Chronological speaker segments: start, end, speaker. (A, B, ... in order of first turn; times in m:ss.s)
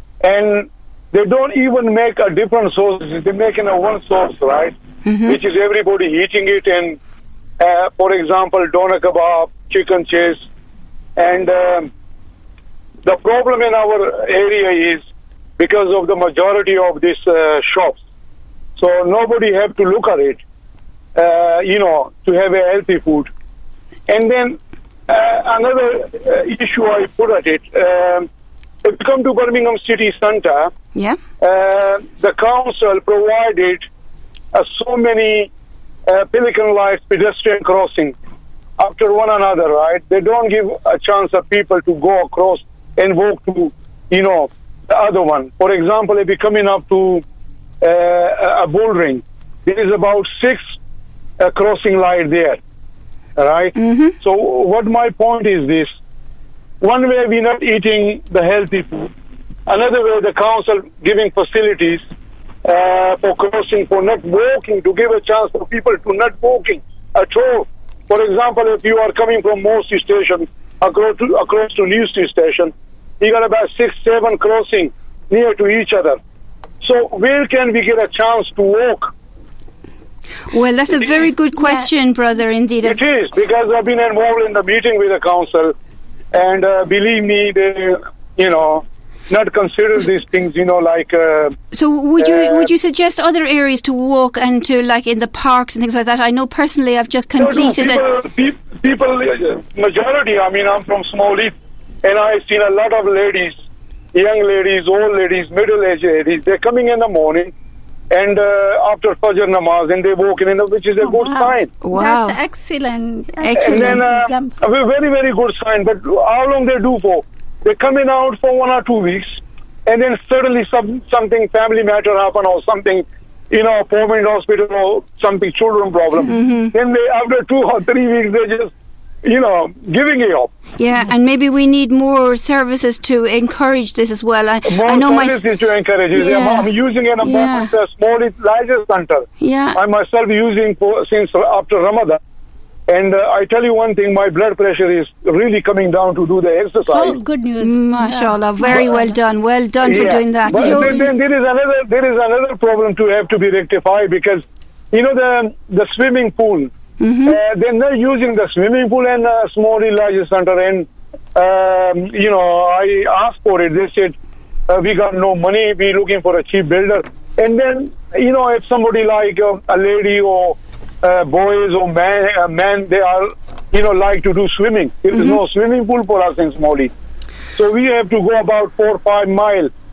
0:00.2-0:07.0 A
0:05.0-0:05.4 B
0:07.6-0:10.4 A
0:11.2-0:11.9 A
0:13.0-0:15.0 A
0:15.6-0:18.0 A
0:18.8-0:20.4 A
0:21.1-0:23.3 A
0:24.1-0:28.3 A
0:28.8-0:30.7 A
0:31.4-0:33.8 A
0:34.5-0:35.5 A
0:36.1-0:38.2 A
0:38.8-0:47.2 A
0:47.8-0:50.7 A
0:51.4-0:52.6 A
0:53.4-0:55.9 A
0:53.8-0:54.1 B
0:56.8-0:59.1 A
0:59.7-1:02.0 A
1:02.6-1:16.2 A
1:16.8-1:19.1 A
1:20.5-1:23.0 B
1:22.8-1:25.7 A
1:26.3-1:31.6 A
1:31.7-1:38.0 B
1:32.2-1:32.7 A
1:37.4-1:43.6 A
1:44.1-1:47.5 A
1:48.1-1:51.7 A
1:51.0-1:54.5 C
1:51.8-1:52.4 B
1:53.4-1:54.0 B
1:53.6-2:08.7 A
2:06.3-2:06.7 B
2:09.2-2:10.5 A
2:10.8-2:15.4 B
2:14.6-2:22.2 A
2:16.1-2:17.7 B
2:19.4-2:19.8 B
2:22.9-2:27.2 A
2:26.9-2:29.2 C
2:27.6-2:31.0 B
2:29.8-2:36.7 A
2:30.4-2:31.1 C
2:37.0-2:37.4 B
2:37.2-2:44.2 A
2:44.7-2:56.9 A
2:57.5-2:59.7 A